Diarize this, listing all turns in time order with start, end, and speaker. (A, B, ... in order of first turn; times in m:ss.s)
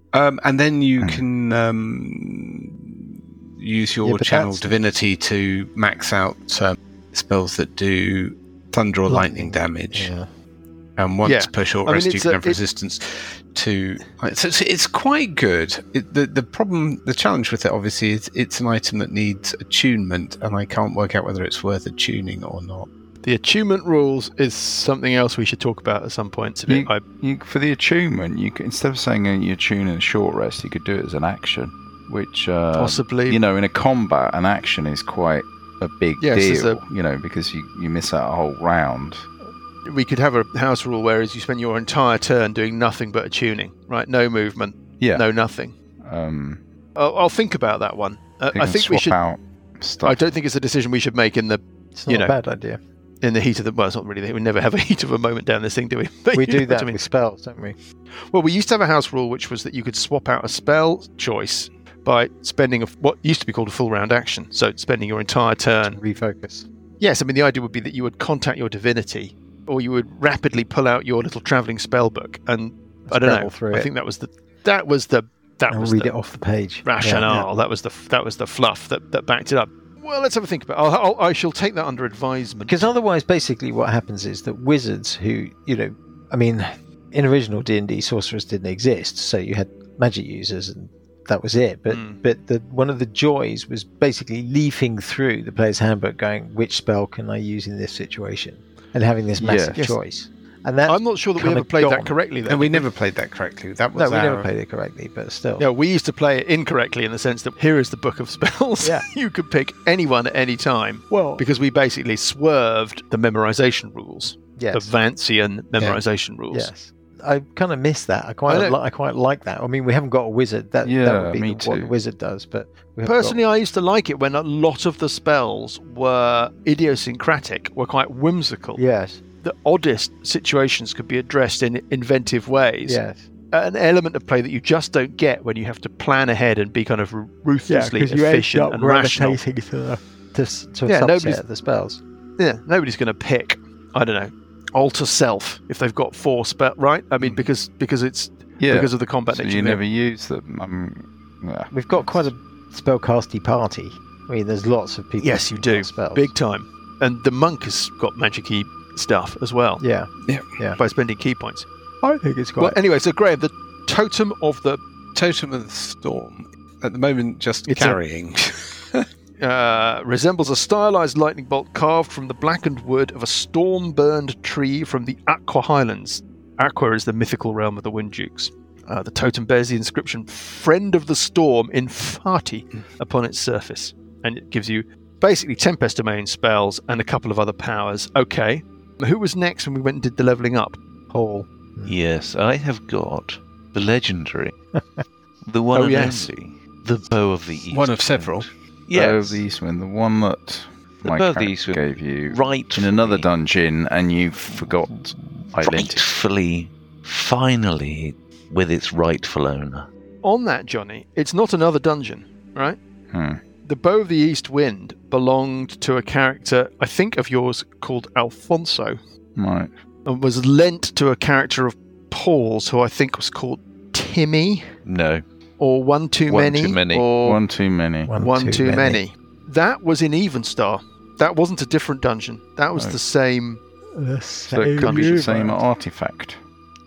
0:00.1-0:03.0 A
0:03.6-0:10.1 A
0:04.0-0:04.7 B
0:09.1-0:10.3 B
0:11.0-0:22.9 A
0:11.2-0:12.6 C
0:23.2-0:27.0 C
0:26.7-0:39.3 D
0:32.7-0:33.4 C
0:36.2-0:36.8 C
0:39.8-0:45.8 C
0:45.0-0:45.2 D
0:46.0-0:46.6 D
0:47.0-0:49.2 C
0:48.5-0:50.2 D
0:50.0-0:52.4 C
0:52.0-0:52.8 B
0:53.2-0:57.0 C
0:56.3-0:57.8 B
0:58.3-1:06.0 C
1:05.9-1:06.7 B
1:07.0-1:16.2 C
1:13.1-1:13.9 B
1:15.7-1:17.3 B
1:16.8-1:22.9 C
1:22.7-1:42.2 B
1:31.9-1:32.2 C
1:39.4-1:39.8 D
1:40.9-1:42.9 C
1:42.5-1:44.5 A
1:44.0-1:45.6 B
1:45.6-1:56.7 C
1:51.1-1:51.4 B
1:54.6-1:54.9 B
1:56.5-2:03.4 B
1:58.5-1:58.8 C
2:00.8-2:02.0 D
2:03.0-2:08.8 C
2:08.8-2:09.2 B
2:09.4-2:19.4 C
2:12.8-2:13.3 B
2:17.7-2:22.0 B
2:20.9-2:21.4 C
2:22.4-2:29.8 C
2:27.2-2:27.5 D
2:28.6-2:32.3 D
2:31.7-2:36.3 B
2:35.2-2:39.8 C
2:39.8-2:40.8 B
2:40.2-2:40.6 A
2:40.8-2:41.7 C
2:42.0-2:42.8 B
2:42.6-2:44.8 C
2:45.1-2:49.1 A
2:47.7-2:48.0 C
2:49.4-3:10.8 C
3:11.1-3:12.0 B
3:11.9-3:14.6 E
3:14.7-3:15.0 B
3:15.5-3:19.4 E
3:15.7-3:16.3 C
3:17.7-3:18.5 A
3:18.9-3:26.0 D
3:21.0-3:23.3 E
3:25.6-3:29.9 E
3:30.2-3:32.8 C
3:33.1-3:33.4 D
3:33.6-3:39.0 C
3:39.4-3:39.7 D
3:40.1-3:44.7 C
3:44.8-3:45.2 E
3:45.6-3:46.8 C
3:46.3-3:47.4 E
3:46.9-3:48.1 D
3:48.1-3:49.0 B
3:48.2-3:53.6 C
3:52.8-3:53.0 D
3:54.0-3:55.6 B
3:54.5-3:56.4 D
3:54.8-3:55.4 C